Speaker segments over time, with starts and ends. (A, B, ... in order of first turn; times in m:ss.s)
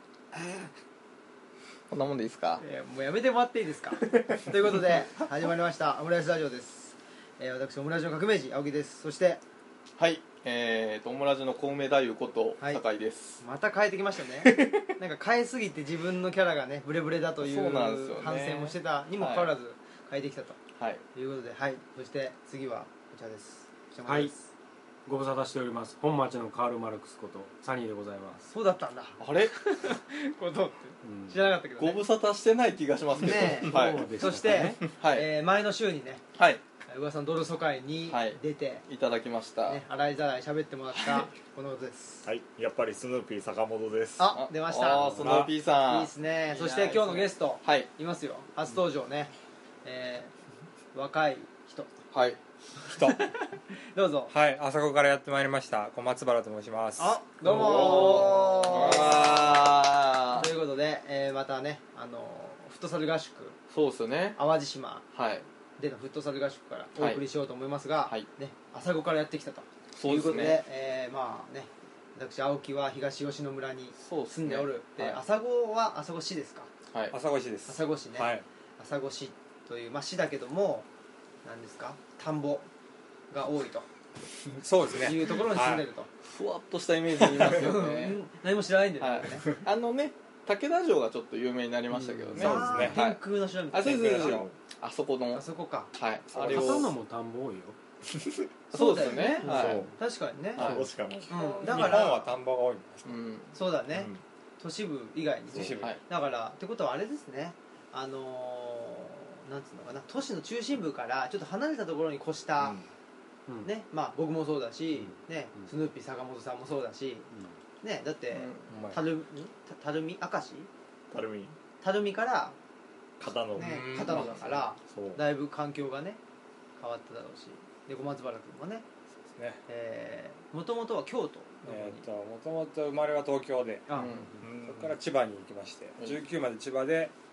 0:00.3-0:00.7 A
0:01.9-0:02.6 B
0:02.6-0:09.4 A
0:04.1-0:04.5 B
0:10.0-0:13.4 B
0:13.4-0:20.6 A
0:14.4-0:14.9 B
0:17.4-0:19.5 B
0:20.8-0:21.0 B
0:21.1-0:24.5 A
0:24.0-0:24.3 C
0:25.0-0:28.5 C
0:28.5-0:32.0 A
0:29.2-0:29.5 B
0:31.0-0:31.4 C
0:31.8-0:35.3 B
0:33.2-0:36.2 A
0:33.4-0:34.9 C
0:36.3-0:36.6 B
0:36.9-0:38.8 A
0:38.1-0:39.8 B
0:39.6-0:42.3 A
0:41.0-0:41.3 B
0:42.2-0:44.3 D
0:44.2-0:45.3 A
0:44.3-0:47.9 B
0:45.0-0:45.5 E
0:45.8-0:49.3 A
0:49.8-0:50.3 A
0:50.9-0:51.9 A
0:52.1-0:52.4 B
0:52.8-0:54.3 A
0:52.9-0:53.2 E
0:54.3-0:58.2 E
0:57.0-0:59.6 A
0:57.4-1:00.5 B
0:58.8-0:59.4 E
1:00.3-1:03.6 A
1:03.7-1:04.4 B
1:04.4-1:05.0 A
1:05.1-1:05.4 B
1:05.8-1:16.7 A
1:09.9-1:10.6 B
1:14.0-1:15.2 B
1:17.1-1:18.4 E
1:17.7-1:20.9 A
1:21.4-1:22.7 A
1:23.3-1:23.9 A
1:24.6-1:25.8 E
1:24.9-1:26.1 A
1:26.2-1:28.2 B
1:27.4-1:29.6 A
1:29.0-1:36.9 B
1:31.9-1:32.3 C
1:32.3-1:33.0 E
1:32.3-1:34.4 A
1:33.8-1:34.5 E
1:35.3-1:36.9 A
1:36.4-1:37.8 C
1:38.7-1:42.4 A
1:38.7-1:39.9 B
1:39.4-1:39.9 D
1:39.5-1:39.8 C
1:40.5-1:42.0 D
1:40.6-1:40.8 B
1:41.6-1:43.1 E
1:43.0-1:43.5 B
1:43.5-1:52.8 A
1:43.9-1:44.2 D
1:45.5-1:45.9 E
1:52.6-1:52.9 D
1:53.6-2:00.7 A
1:55.0-1:55.7 C
1:58.3-1:58.7 B
1:58.7-1:59.0 E
2:01.1-2:01.6 D
2:01.8-2:02.6 A
2:03.2-2:05.2 D
2:03.5-2:06.2 A
2:04.0-2:04.3 B
2:06.8-2:08.8 A
2:09.3-2:09.6 E
2:09.7-2:12.0 A
2:11.6-2:17.1 E
2:13.9-2:14.4 A
2:13.9-2:14.4 B
2:14.4-2:15.0 D
2:16.0-2:16.3 B